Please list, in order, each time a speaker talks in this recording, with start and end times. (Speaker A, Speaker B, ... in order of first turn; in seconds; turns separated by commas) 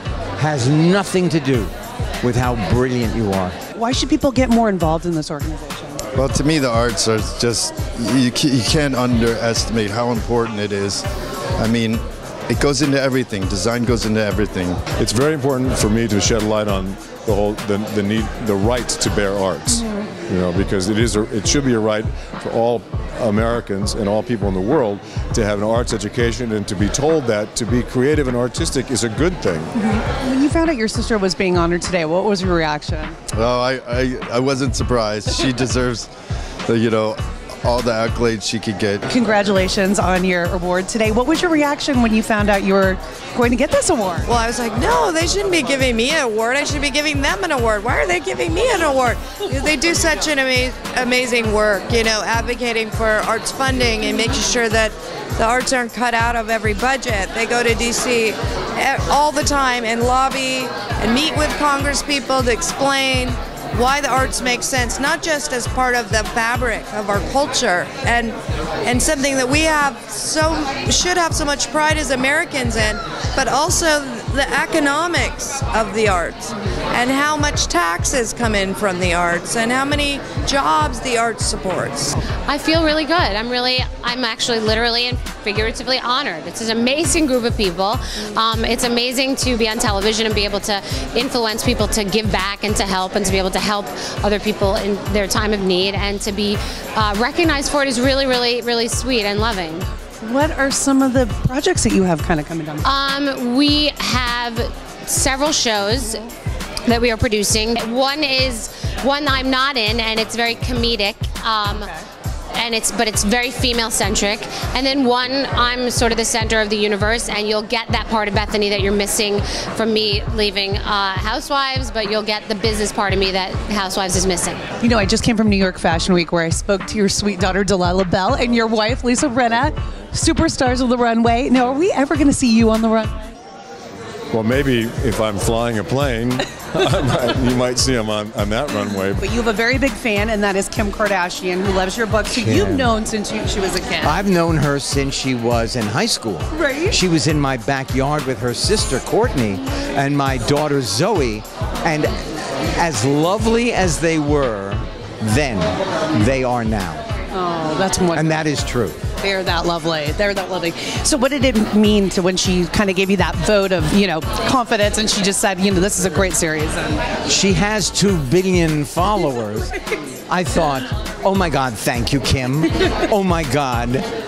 Speaker A: 0.3-3.6, Speaker B: 3.7-6.0, Speaker C: 6.1-11.0, Speaker C: 11.6-14.8, Speaker D: 15.0-29.7, Speaker B: 29.7-33.2, Speaker C: 33.3-36.1, Speaker C: 36.7-39.0, Speaker B: 39.1-44.3, Speaker E: 44.3-82.2, Speaker F: 82.5-99.9, Speaker B: 100.2-102.8, Speaker F: 102.8-106.3, Speaker F: 106.8-111.9, Speaker B: 111.7-112.0, Speaker F: 112.5-124.6, Speaker B: 124.8-133.3, Speaker D: 134.3-139.2, Speaker B: 139.2-144.2, Speaker A: 142.3-142.9, Speaker A: 144.0-152.2, Speaker B: 146.5-147.0, Speaker A: 152.7-157.1, Speaker B: 157.3-158.5, Speaker A: 158.1-159.0, Speaker B: 159.2-167.0, Speaker A: 167.3-169.7, Speaker A: 170.3-174.1